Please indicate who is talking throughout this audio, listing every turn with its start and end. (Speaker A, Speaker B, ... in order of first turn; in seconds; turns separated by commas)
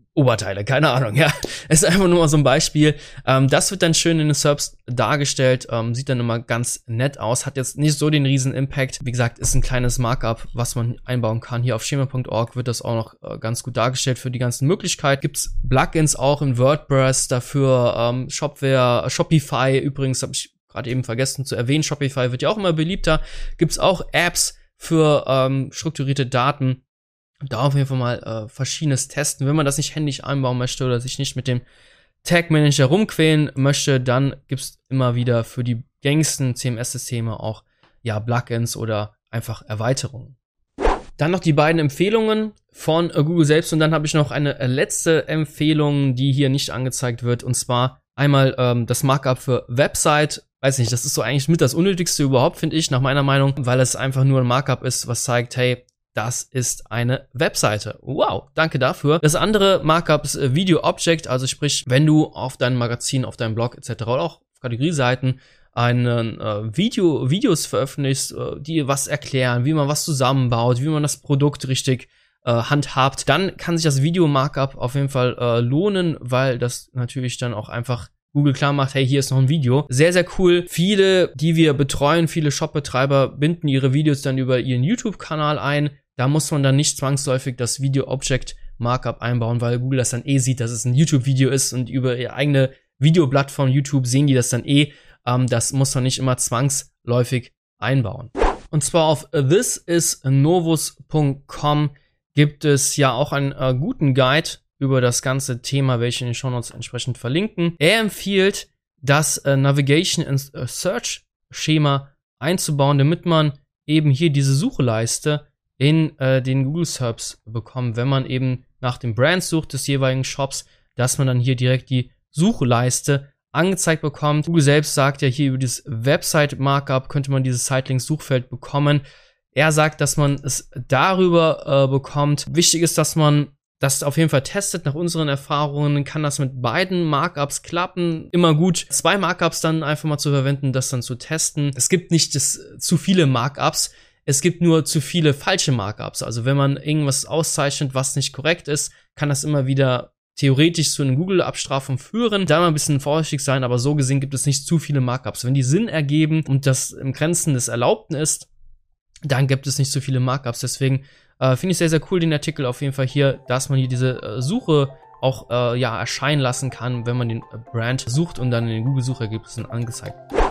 Speaker A: 0.1-26.8, Speaker A: 27.5-31.6, Speaker A: 32.2-40.4, Speaker A: 41.2-129.0, Speaker A: 129.5-158.5, Speaker A: 159.3-170.2